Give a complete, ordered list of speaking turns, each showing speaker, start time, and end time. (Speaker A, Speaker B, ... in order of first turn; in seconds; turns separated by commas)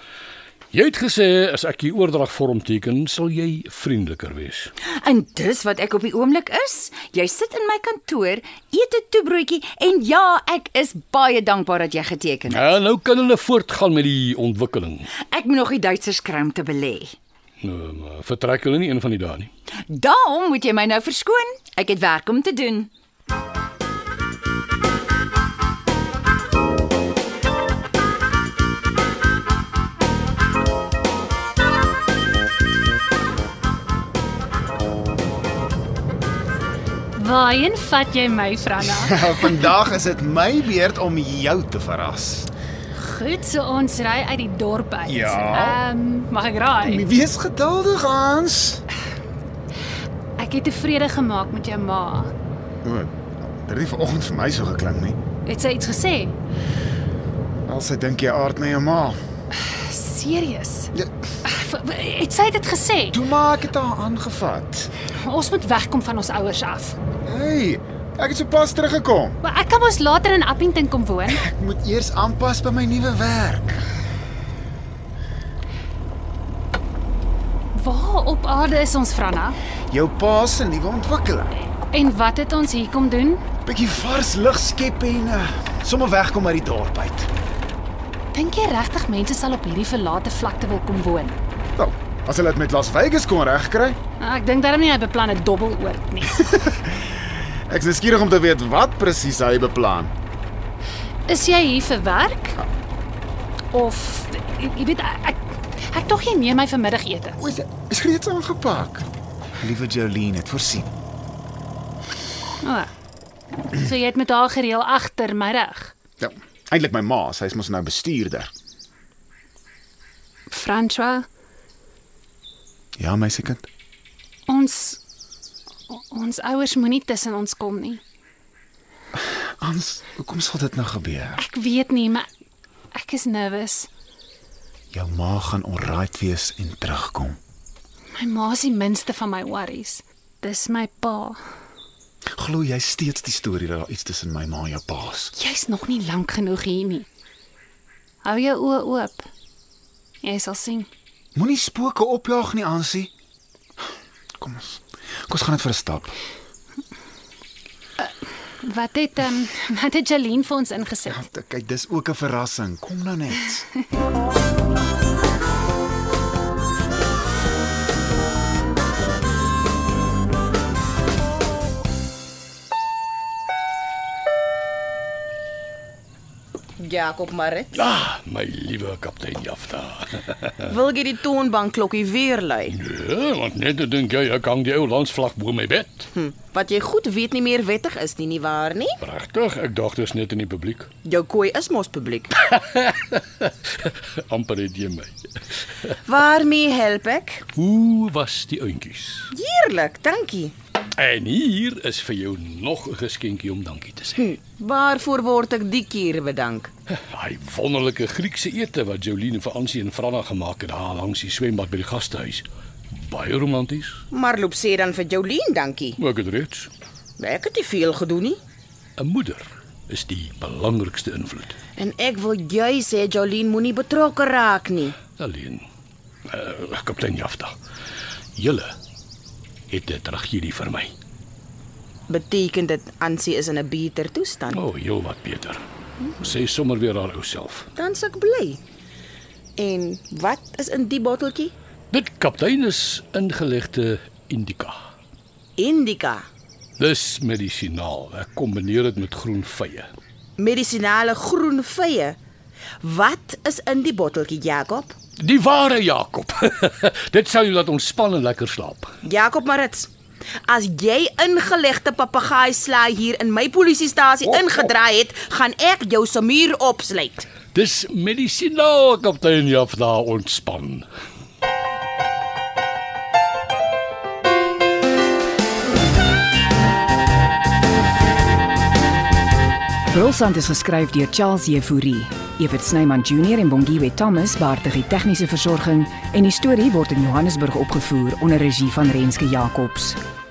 Speaker A: 0.7-4.7, Speaker B: 4.8-12.7, Speaker A: 12.5-15.1, Speaker B: 15.3-17.2, Speaker A: 17.6-19.5, Speaker B: 19.9-22.9, Speaker C: 37.2-39.7, Speaker D: 38.9-42.5, Speaker C: 43.0-47.1, Speaker D: 45.1-45.8, Speaker D: 46.8-48.8, Speaker C: 50.4-52.3, Speaker D: 52.8-55.2, Speaker C: 55.5-56.4, Speaker D: 57.7-59.2, Speaker C: 59.6-60.9, Speaker C: 61.5-63.2, Speaker D: 63.1-64.9, Speaker C: 65.2-67.0, Speaker D: 67.2-69.4, Speaker C: 69.4-71.5, Speaker D: 71.3-73.8, Speaker C: 77.8-79.6, Speaker D: 79.9-81.5, Speaker C: 81.9-83.4, Speaker D: 83.7-87.3, Speaker C: 88.3-91.4, Speaker D: 91.8-94.0, Speaker C: 94.2-96.5, Speaker D: 96.5-100.1, Speaker C: 101.3-102.6, Speaker C: 103.7-105.4, Speaker C: 105.9-107.4, Speaker D: 107.4-109.1, Speaker D: 109.6-110.9, Speaker C: 112.6-112.9, Speaker C: 113.8-115.9, Speaker D: 116.2-118.5, Speaker C: 120.5-121.3, Speaker D: 123.0-123.7, Speaker C: 124.5-125.0, Speaker C: 125.9-128.0, Speaker D: 129.2-131.4, Speaker C: 131.4-132.3, Speaker C: 132.9-133.9, Speaker D: 134.9-137.4, Speaker C: 138.2-141.4, Speaker D: 142.3-145.3, Speaker C: 145.3-147.1, Speaker C: 148.2-149.2, Speaker C: 150.2-150.9, Speaker D: 151.3-153.1, Speaker D: 154.4-156.2, Speaker C: 158.6-161.2, Speaker D: 161.1-163.7, Speaker E: 176.8-177.8, Speaker A: 177.7-180.7, Speaker E: 180.7-182.8, Speaker A: 182.7-186.1, Speaker E: 186.1-189.0, Speaker A: 189.0-190.9, Speaker E: 191.1-192.3, Speaker A: 192.5-195.2, Speaker E: 196.1-197.4, Speaker A: 197.6-199.3, Speaker E: 199.3-200.5, Speaker A: 201.0-204.3, Speaker E: 204.2-206.7, Speaker A: 207.1-214.0, Speaker E: 214.1-216.0, Speaker A: 216.0-216.7, Speaker E: 217.2-218.4, Speaker A: 219.0-221.6, Speaker E: 221.8-225.0, Speaker A: 225.2-225.7, Speaker A: 226.3-227.6, Speaker A: 228.4-228.8, Speaker A: 229.7-230.9, Speaker E: 232.1-234.6, Speaker A: 234.5-235.7, Speaker A: 236.2-237.7, Speaker E: 237.8-238.6, Speaker E: 239.6-241.5, Speaker A: 241.9-244.8, Speaker E: 245.6-246.2, Speaker A: 246.8-249.9, Speaker E: 250.4-252.2, Speaker E: 252.8-254.9, Speaker A: 255.2-258.9, Speaker E: 259.0-259.9, Speaker E: 260.5-267.3, Speaker A: 267.5-270.9, Speaker F: 279.9-290.0